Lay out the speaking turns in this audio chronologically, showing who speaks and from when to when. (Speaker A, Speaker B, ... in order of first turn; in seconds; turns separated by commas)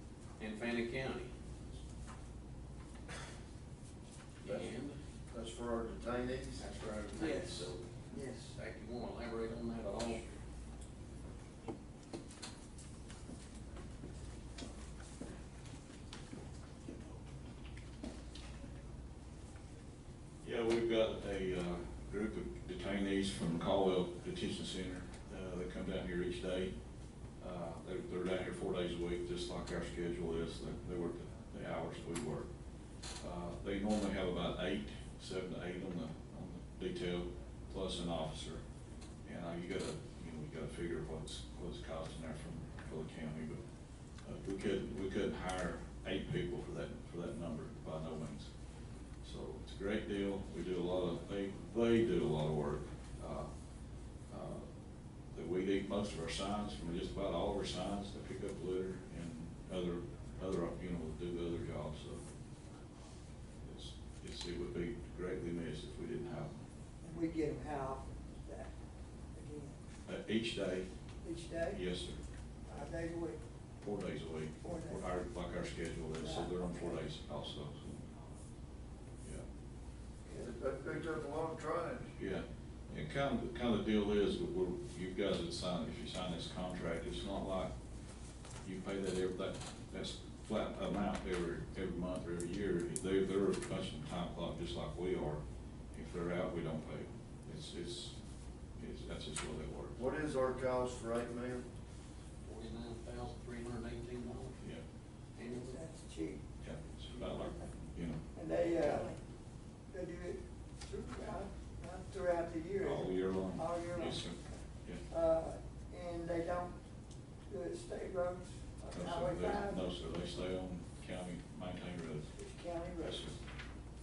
Speaker A: 0.4-1.3, Speaker A: 4.4-5.0, Speaker B: 4.5-4.7, Speaker B: 5.3-6.6, Speaker A: 6.6-10.3, Speaker C: 20.4-26.7, Speaker C: 27.4-32.5, Speaker C: 33.2-38.6, Speaker C: 39.2-43.6, Speaker C: 44.2-48.5, Speaker C: 49.2-53.5, Speaker C: 54.3-54.6, Speaker C: 55.3-62.2, Speaker C: 63.6-66.6, Speaker D: 67.0-68.8, Speaker D: 69.3-69.8, Speaker C: 70.1-70.9, Speaker D: 71.2-71.8, Speaker C: 71.5-72.2, Speaker D: 72.7-73.4, Speaker C: 73.8-77.9, Speaker D: 76.2-77.0, Speaker B: 80.3-82.2, Speaker C: 82.2-87.7, Speaker C: 88.6-95.4, Speaker C: 95.9-98.2, Speaker C: 98.8-100.0, Speaker B: 100.0-101.7, Speaker A: 102.5-104.6, Speaker A: 105.4-105.8, Speaker D: 105.7-106.4, Speaker C: 106.6-108.2, Speaker D: 108.3-109.2, Speaker D: 109.9-116.8, Speaker C: 112.8-115.0, Speaker D: 117.5-119.8, Speaker C: 118.9-122.3, Speaker D: 122.4-123.3, Speaker C: 123.0-123.4